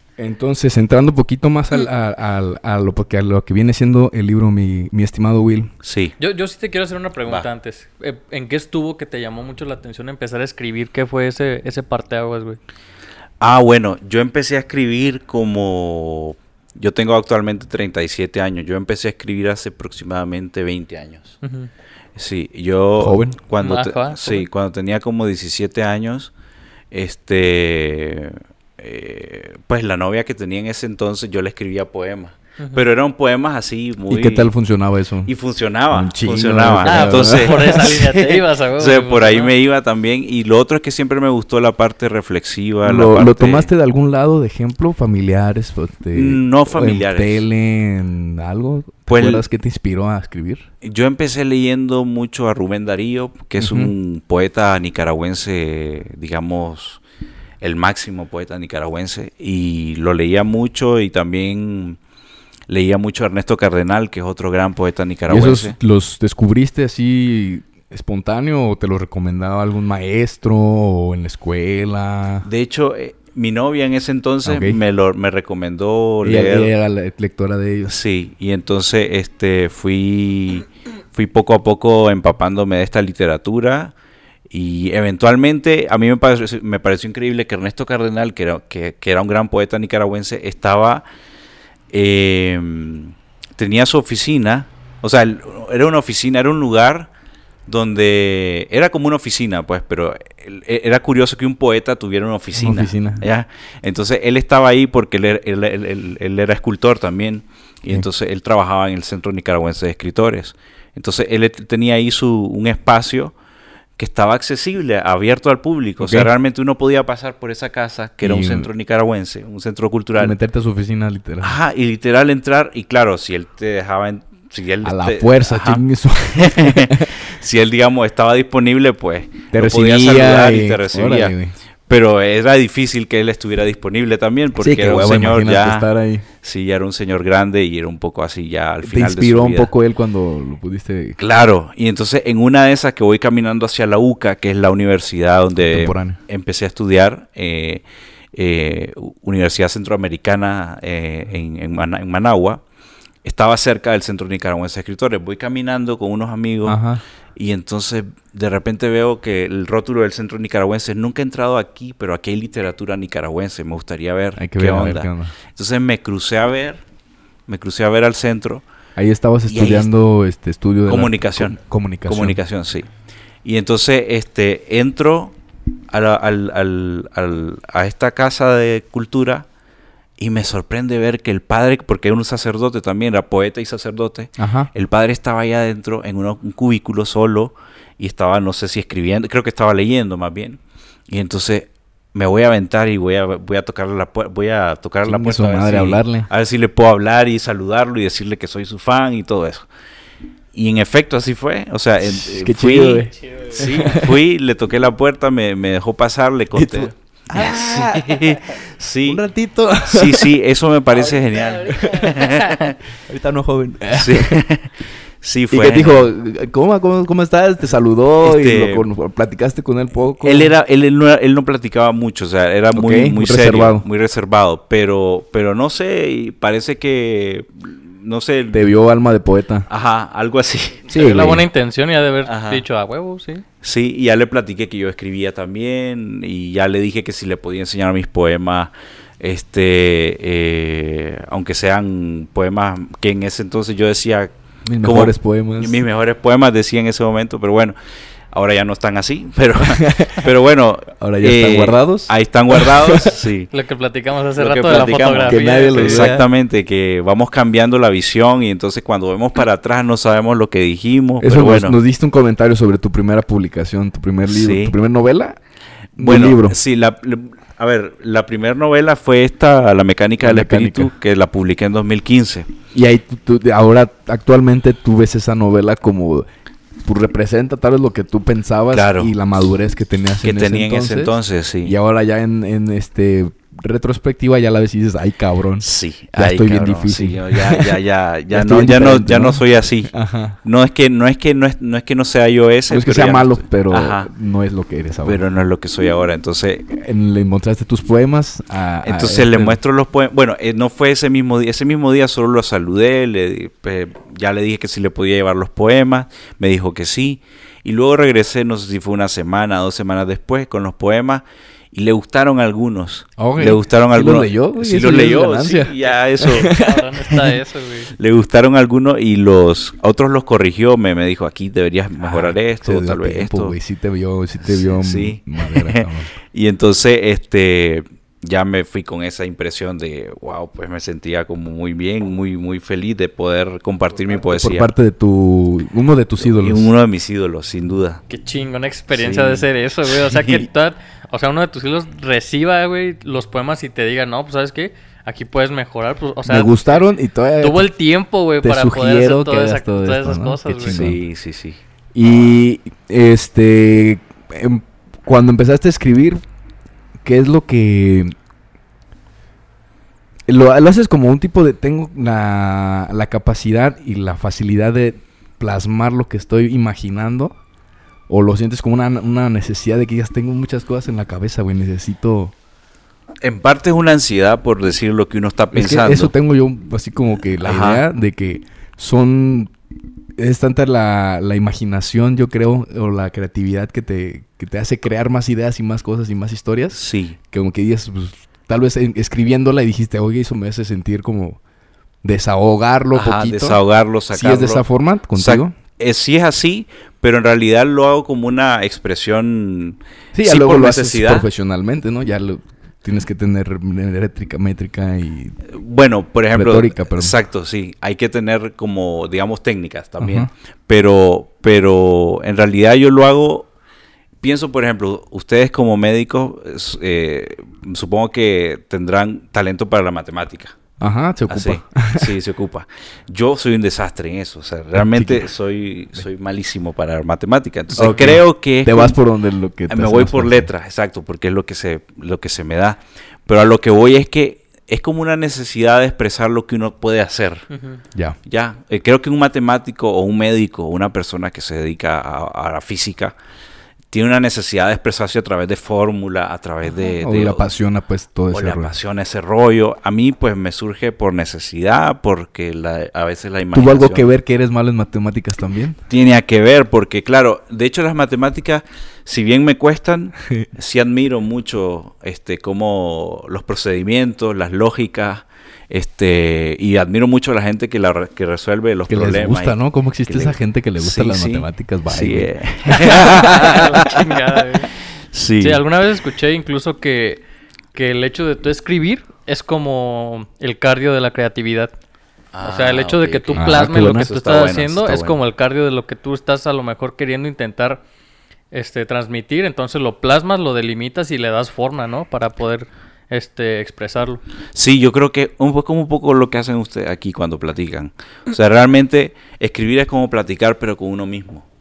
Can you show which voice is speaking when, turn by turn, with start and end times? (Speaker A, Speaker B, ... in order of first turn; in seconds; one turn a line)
Speaker A: 0.2-5.7
Speaker B: 5.8-6.2
Speaker C: 6.2-12.6
Speaker B: 13.4-21.4
Speaker C: 21.4-21.7
Speaker B: 22.1-26.3
Speaker A: 23.0-23.4
Speaker C: 23.6-24.4
Speaker B: 26.9-34.5
Speaker A: 34.1-35.3
Speaker B: 35.2-43.7
Speaker A: 35.9-37.9
Speaker C: 36.8-39.5
Speaker A: 42.8-50.7
Speaker B: 46.1-47.4
Speaker B: 49.1-49.4
Speaker B: 50.8-57.0
Speaker A: 53.6-53.9
Speaker B: 57.6-62.0
Speaker B: 62.7-65.8
Speaker A: 65.3-72.5
Speaker B: 72.4-76.7
Speaker A: 74.4-74.8
Speaker A: 76.2-78.0
Speaker B: 77.9-83.9
Speaker B: 84.5-91.0
Speaker B: 91.9-97.1
Speaker B: 97.7-113.3
Speaker A: 102.5-103.2
Speaker B: 114.0-120.3
Speaker A: 116.0-116.3
Speaker A: 118.2-118.7
Speaker A: 120.2-121.5
Speaker B: 121.4-125.8
Speaker A: 124.8-127.2
Speaker B: 126.3-131.3
Speaker A: 129.5-131.5
Speaker B: 131.9-135.9
Speaker A: 134.6-136.2
Speaker B: 136.4-139.7
Speaker A: 138.8-141.2
Speaker B: 141.2-152.6
Speaker A: 145.6-146.2
Speaker B: 153.2-156.8
Speaker A: 156.7-157.0
Speaker B: 157.3-166.8
Speaker A: 164.3-165.3
Speaker B: 167.5-168.6
Speaker A: 168.9-172.4
Speaker B: 169.5-169.9
Speaker B: 170.9-172.9
Speaker B: 173.4-175.3
Speaker B: 175.9-179.4
Speaker B: 180.2-199.7
Speaker A: 184.4-184.7
Speaker A: 195.0-196.3
Speaker B: 200.5-209.2
Speaker A: 202.0-204.1
Speaker A: 206.5-208.5
Speaker A: 209.0-210.3
Speaker B: 209.8-212.8
Speaker A: 211.7-212.2
Speaker A: 213.1-214.4
Speaker B: 213.9-216.1
Speaker A: 215.5-220.5
Speaker B: 218.2-218.9
Speaker B: 220.2-228.7
Speaker A: 222.7-223.8
Speaker A: 228.5-229.7
Speaker B: 229.7-231.0
Speaker A: 230.9-231.4
Speaker C: 230.9-233.4
Speaker B: 232.2-232.6
Speaker B: 233.6-247.7
Speaker A: 244.7-245.8
Speaker B: 248.3-253.5
Speaker A: 249.6-250.2
Speaker A: 251.0-253.2
Speaker C: 253.5-256.1
Speaker B: 254.4-261.8
Speaker A: 255.3-256.2
Speaker A: 261.2-265.4
Speaker B: 264.2-264.8
Speaker A: 266.0-266.6
Speaker B: 266.0-272.5
Speaker A: 270.2-270.9
Speaker A: 272.7-276.2
Speaker A: 276.8-287.8
Speaker B: 278.7-279.1
Speaker B: 280.2-281.7
Speaker B: 285.6-294.1
Speaker A: 288.3-290.4
Speaker A: 292.7-295.2
Speaker B: 295.0-296.6
Speaker A: 296.7-299.6
Speaker B: 298.8-316.6
Speaker A: 313.2-317.4
Speaker C: 316.3-317.9
Speaker B: 317.9-323.5
Speaker A: 322.0-326.1
Speaker B: 324.4-334.7
Speaker A: 334.3-336.7
Speaker B: 336.2-338.0
Speaker C: 338.1-350.8
Speaker B: 338.9-340.5
Speaker A: 346.2-347.7
Speaker A: 348.4-351.0
Speaker B: 350.6-351.6
Speaker A: 351.9-356.2
Speaker A: 357.0-358.1
Speaker A: 360.3-367.3
Speaker A: 368.1-372.3
Speaker B: 373.2-376.1
Speaker A: 375.5-379.5
Speaker B: 377.4-377.8
Speaker A: 380.2-391.4
Speaker B: 386.7-387.2
Speaker A: 392.0-393.6
Speaker B: 392.9-401.3
Speaker A: 394.1-395.5
Speaker A: 400.1-405.4
Speaker B: 405.5-413.5
Speaker A: 406.3-407.1
Speaker A: 410.0-410.3
Speaker B: 414.2-420.6
Speaker A: 420.8-422.1
Speaker B: 421.3-429.0
Speaker A: 424.7-425.3
Speaker A: 427.8-430.5
Speaker B: 429.7-437.4
Speaker C: 437.5-437.8
Speaker B: 438.2-443.1
Speaker B: 443.9-447.5
Speaker A: 446.9-448.7
Speaker B: 448.3-454.1
Speaker A: 453.5-455.8
Speaker B: 455.9-474.1
Speaker A: 468.9-473.6
Speaker C: 472.9-474.7
Speaker B: 475.1-475.6
Speaker C: 475.4-477.2
Speaker C: 477.7-481.7
Speaker B: 482.3-485.2
Speaker C: 482.4-487.8
Speaker A: 483.4-484.1
Speaker C: 488.5-494.2
Speaker B: 494.5-501.4